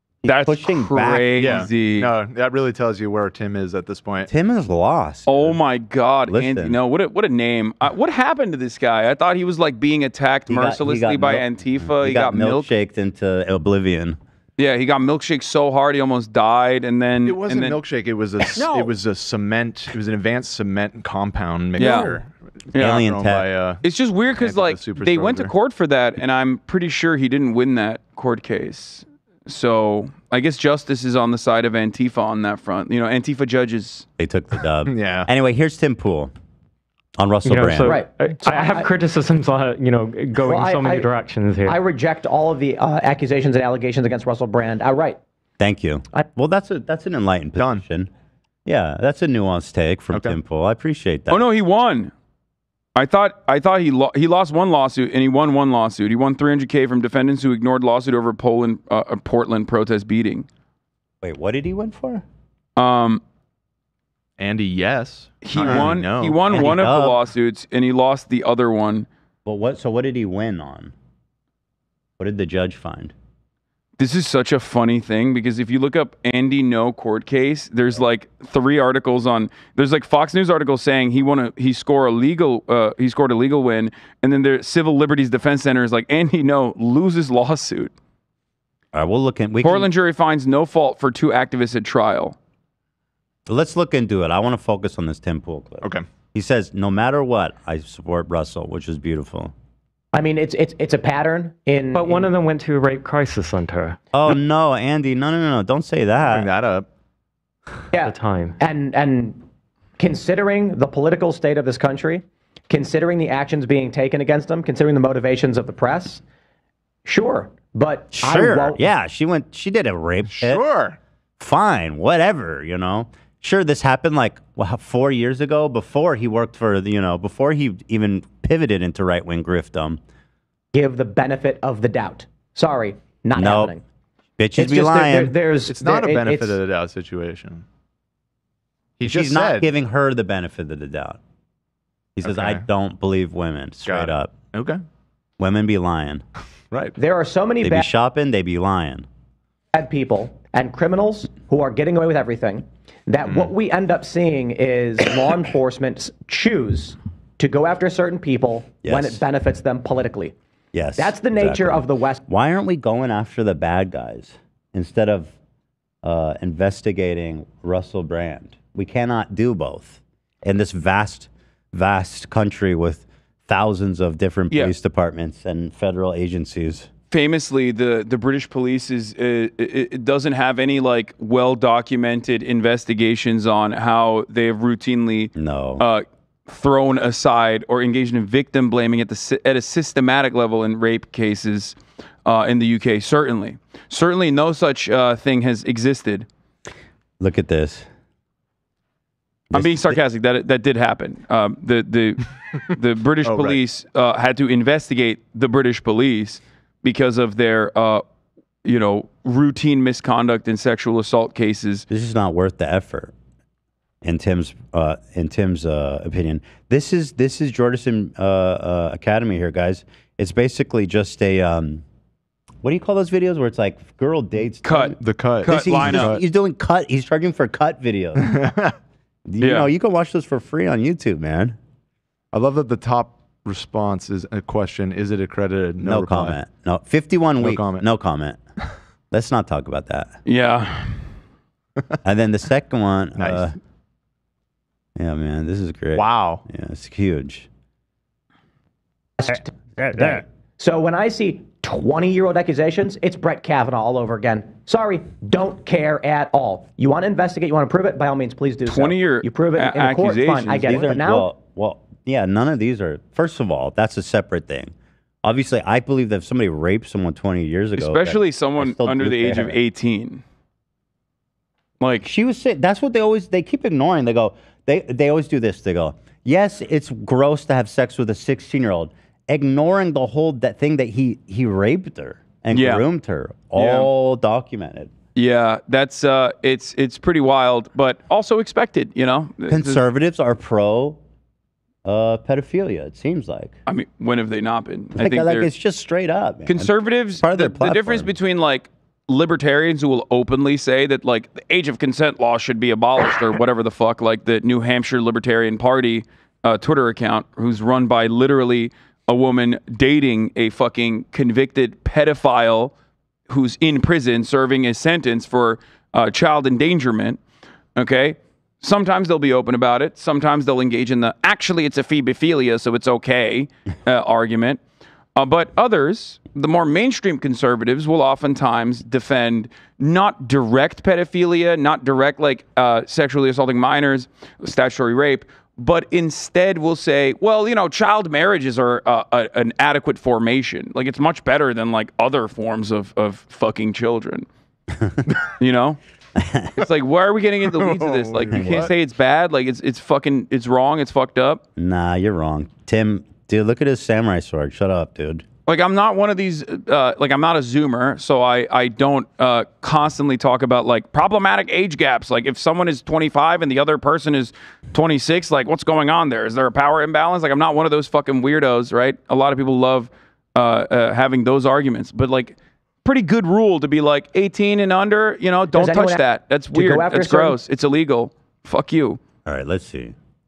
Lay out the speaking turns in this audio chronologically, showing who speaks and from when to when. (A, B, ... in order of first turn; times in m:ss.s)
0:00.2-0:01.7 A
0:00.2-0:02.1 B
0:01.4-0:04.3 C
0:04.3-0:05.6 A
0:05.3-0:12.7 B
0:06.3-0:06.8 A
0:10.5-0:14.2 A
0:14.6-0:17.8 B
0:17.2-0:23.8 C
0:21.8-0:22.2 B
0:22.7-0:23.0 B
0:22.8-0:23.5 A
0:23.8-0:34.0 B
0:24.3-0:25.5 C
0:34.2-0:36.3 A
0:34.9-0:35.3 C
0:37.2-0:38.0 A
0:37.4-0:41.8 D
0:37.8-0:38.9 E
0:40.4-0:41.1 E
0:41.6-0:45.2 E
0:45.6-0:48.1 A
0:47.6-0:47.8 C
0:48.6-0:51.4 A
0:51.3-0:52.1 B
0:52.9-1:00.5 B
1:01.2-1:02.2 A
1:02.8-1:03.2 B
1:04.4-1:06.8 C
1:05.4-1:09.1 B
1:05.6-1:07.2 A
1:09.4-1:10.9 A
1:12.2-1:13.1 A
1:14.0-1:27.9 B
1:28.9-1:29.9 A
1:29.6-1:32.4 B
1:33.5-1:39.5 A
1:40.1-1:42.3 E
1:41.9-1:44.0 D
1:44.1-1:46.5 A
1:46.3-1:46.9 C
1:47.9-1:49.4 E
1:48.0-1:48.5 D
1:50.0-1:56.2 E
1:57.0-1:58.8 E
1:58.1-2:00.6 A
2:00.3-2:01.0 C
2:01.4-2:10.0 A
2:10.7-2:13.8 E
2:13.4-2:13.7 A
2:14.4-2:15.3 A
2:14.6-2:16.6 E
2:15.7-2:17.6 C
2:19.0-2:19.7 C
2:19.0-2:21.2 A
2:22.2-2:24.3 A
2:22.2-2:22.6 C
2:23.8-2:24.8 C
2:25.4-2:26.2 A
2:27.0-2:27.9 E
2:27.6-2:29.0 A
2:29.7-2:40.3 E
2:33.2-2:33.5 C
2:38.8-2:39.2 A
2:40.7-2:45.3 A
2:41.0-2:42.2 E
2:46.0-2:56.9 A
2:57.1-3:16.3 B
3:05.3-3:05.8 A
3:17.2-3:17.9 A
3:19.5-3:20.0 A
3:19.5-3:28.0 B
3:23.2-3:23.6 C
3:28.6-3:31.9 B
3:31.9-3:33.1 A
3:34.0-3:41.8 A
3:42.6-3:48.2 A
3:44.6-3:46.2 B
3:45.0-3:46.2 C
3:48.2-3:48.7 C
3:49.3-3:51.6 A
3:49.4-3:49.7 B
3:52.3-3:56.4 C
3:55.8-3:58.4 A
3:57.4-3:57.8 C
3:59.1-4:00.2 A
4:00.2-4:01.0 B
4:02.0-4:03.6 A
4:03.2-4:03.5 C
4:05.0-4:07.5 A
4:05.9-4:06.4 C
4:09.2-4:21.3 E
4:09.8-4:10.2 A
4:18.6-4:20.8 B
4:20.7-4:24.7 A
4:25.2-4:29.6 A
4:27.8-4:30.2 B
4:31.8-4:32.1 B
4:32.0-4:44.9 A
4:42.5-4:42.8 B
4:43.6-4:43.9 B
4:45.1-4:49.8 B
4:49.5-4:51.0 A
4:51.8-4:53.5 A
4:53.7-4:55.5 B
4:54.9-4:58.1 A
4:56.4-5:12.7 B
5:13.3-5:17.2 B
5:17.8-5:24.6 B
5:25.2-5:44.3 B
5:44.7-5:45.0 A
5:45.4-5:45.8 B
5:46.2-5:46.5 A
5:46.6-5:51.4 B
5:47.5-5:48.7 C
5:48.3-5:48.7 A
5:51.6-5:55.2 A
5:55.4-6:19.0 B
6:15.5-6:17.4 E
6:19.2-6:20.0 A